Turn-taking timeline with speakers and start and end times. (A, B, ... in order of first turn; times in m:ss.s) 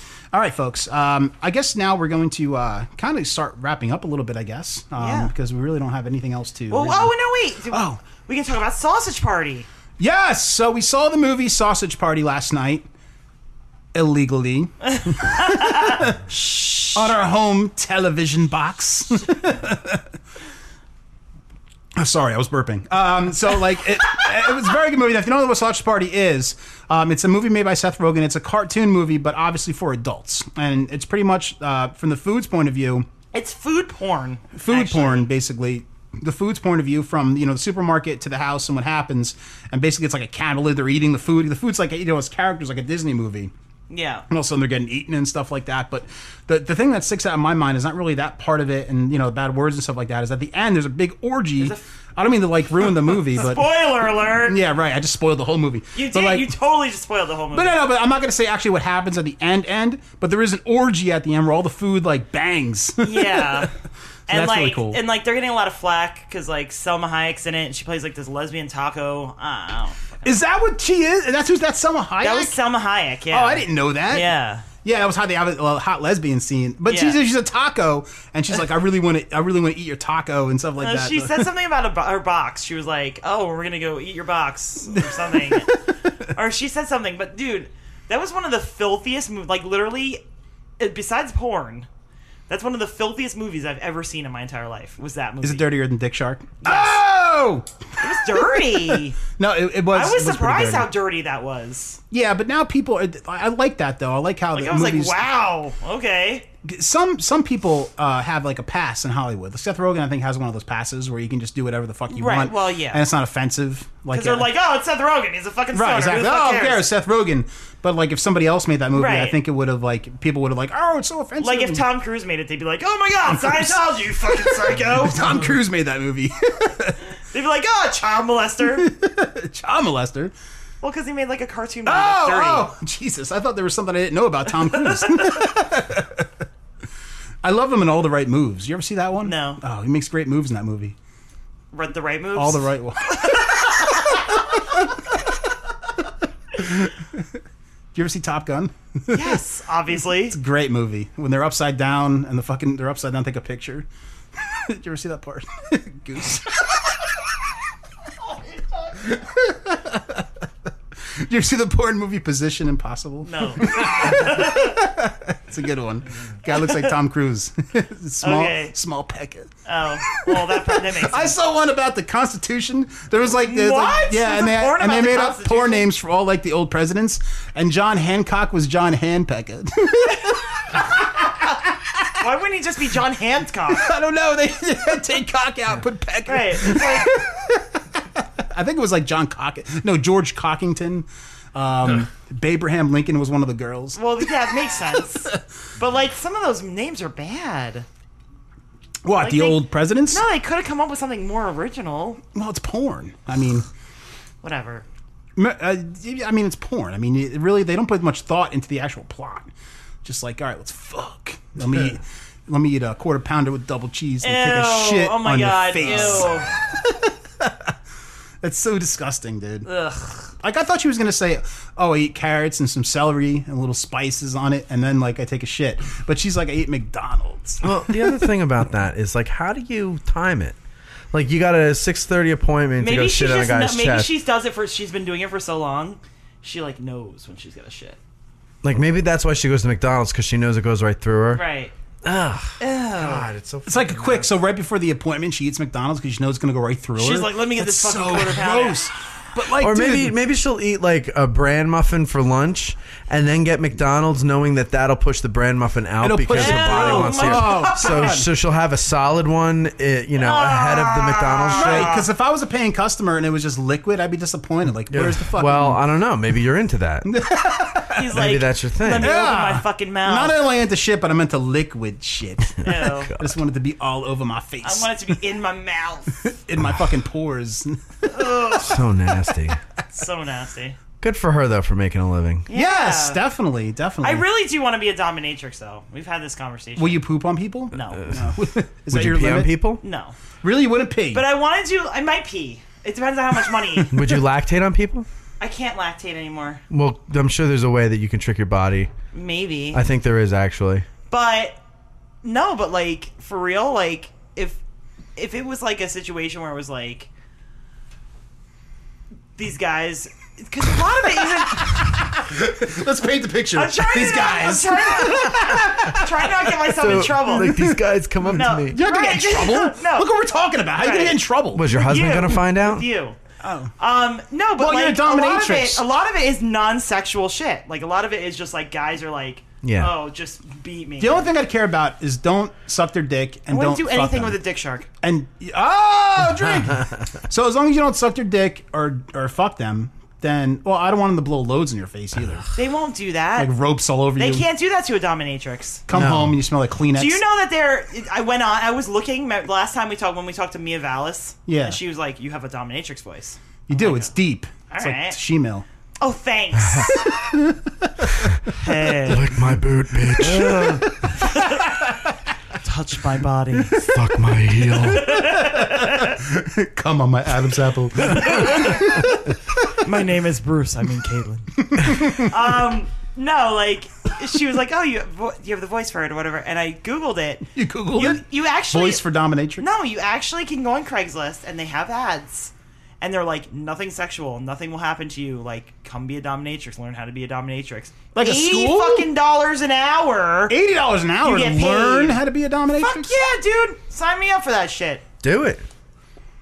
0:00.3-0:07.1 A
0:05.0-0:05.3 B
0:06.7-0:09.7 B
0:07.7-0:08.0 A
0:10.0-0:12.9 A
0:13.9-0:16.3 A
0:15.0-0:17.1 B
0:16.9-0:20.1 A
0:21.9-0:33.1 A
0:33.3-0:35.3 B
0:34.5-0:43.5 A
0:43.9-0:44.2 B
0:44.3-0:53.7 A
0:51.6-0:51.8 B
0:52.9-0:54.6 B
0:54.4-0:56.5 A
0:55.9-0:57.8 B
0:57.5-1:03.7 A
1:03.0-1:03.7 B
1:04.3-1:05.0 A
1:04.3-1:10.3 B
1:10.2-1:12.6 A
1:12.2-1:14.6 B
1:13.3-1:14.3 A
1:14.8-1:21.5 A
1:16.8-1:17.2 B
1:20.8-1:25.8 B
1:24.9-1:25.8 A
1:26.3-1:30.2 B
1:30.8-1:31.9 B
1:32.5-1:35.7 B
1:35.4-1:40.9 A
1:36.6-1:37.0 B
1:38.0-1:39.2 B
1:39.9-1:42.0 B
1:42.1-1:45.2 A
1:44.5-1:46.5 B
1:46.6-1:54.5 A
1:52.1-1:53.0 B
1:54.1-1:56.9 B
1:55.7-2:01.8 A
1:58.9-1:59.4 B
2:01.4-2:05.3 B
2:03.3-2:07.0 A
2:07.3-2:08.9 B
2:08.7-2:10.3 A
2:10.8-2:12.7 B
2:11.8-2:16.3 A
2:14.8-2:15.4 B
2:17.4-2:21.0 A
2:19.2-2:19.6 B
2:21.7-2:24.1 B
2:22.3-2:24.8 A
2:26.5-2:27.2 A
2:27.9-2:29.4 A
2:29.1-2:30.4 B
2:30.2-2:36.8 A
2:38.9-2:40.3 A
2:41.0-2:49.5 A
2:43.2-2:44.8 B
2:46.5-2:46.9 B
2:48.2-2:48.7 B
2:49.6-2:51.4 B
2:50.1-3:01.4 A
2:53.4-2:55.9 B
3:02.1-3:03.9 B
3:03.7-3:15.4 A
3:06.2-3:07.2 B
3:14.0-3:17.8 B
3:19.0-3:20.2 A
3:19.2-3:22.2 B
3:22.3-3:23.7 A
3:24.4-3:24.8 B
3:25.4-3:29.5 A
3:30.0-3:37.7 A
3:34.2-3:36.5 B
3:38.4-3:39.7 A
3:39.6-3:40.3 B
3:40.4-3:47.9 A
3:47.6-3:50.6 C
3:51.1-3:54.1 C
3:52.8-3:58.0 B
3:58.6-4:01.4 C
4:01.3-4:01.7 B
4:02.0-4:04.3 C
4:02.6-4:03.3 B
4:03.6-4:10.2 A
4:07.0-4:08.9 B
4:09.6-4:22.0 C
4:16.0-4:18.3 A
4:16.3-4:18.2 B
4:20.2-4:22.1 B
4:21.5-4:25.8 A
4:24.9-4:27.1 C
4:27.0-4:28.1 A
4:27.9-4:30.4 B
4:28.1-4:29.1 C
4:29.0-4:34.9 A
4:32.6-4:33.1 B
4:34.6-4:36.3 B
4:36.2-4:38.6 A
4:38.1-4:38.8 B
4:38.6-4:39.6 C
4:39.9-4:40.8 B
4:41.0-4:42.5 C
4:42.5-4:43.2 B
4:42.5-4:44.2 A
4:44.0-4:47.0 B
4:46.8-4:49.5 A
4:47.7-4:48.2 B
4:48.9-4:49.8 C
4:49.8-4:50.2 B
4:50.4-4:51.2 A
4:51.1-4:53.9 B
4:53.9-4:55.0 C
4:55.4-4:56.6 B
4:56.7-4:58.9 C
4:59.1-4:59.8 B
4:59.7-5:00.9 C
5:01.1-5:01.6 B
5:02.2-5:04.6 B
5:05.2-5:07.1 B
5:09.4-5:12.0 B
5:11.4-5:17.8 A
5:13.5-5:17.6 B
5:16.7-5:18.8 C
5:18.2-5:20.1 B
5:18.7-5:21.6 A
5:20.8-5:21.2 B
5:21.5-5:22.9 C
5:21.7-5:23.2 B
5:23.4-5:23.7 A
5:23.8-5:31.3 B
5:24.6-5:25.8 A
5:29.6-5:29.9 C
5:31.0-5:34.4 A
5:33.5-5:34.9 B
5:35.0-5:42.4 A
5:42.5-5:43.5 B
5:43.4-5:44.4 A
5:44.2-5:45.8 B
5:45.9-5:47.2 A
5:45.9-5:46.4 C
5:46.9-5:54.1 B
5:51.5-5:51.8 A
5:53.7-5:55.6 A
5:54.7-5:55.2 B
5:56.0-5:57.2 B
5:56.6-5:56.9 C
5:57.1-5:58.3 A
5:58.5-5:59.4 B
5:59.1-6:00.9 C
6:00.2-6:02.0 A
6:00.2-6:01.6 B
6:02.6-6:03.9 B
6:03.8-6:05.1 C
6:04.7-6:06.2 B
6:05.0-6:09.2 A
6:08.0-6:19.0 B
6:11.6-6:12.3 A
6:17.5-6:19.6 A
6:19.6-6:30.6 B
6:28.1-6:29.1 A
6:30.5-6:33.2 A
6:31.2-6:32.2 B
6:32.7-6:35.0 B
6:35.2-6:35.6 C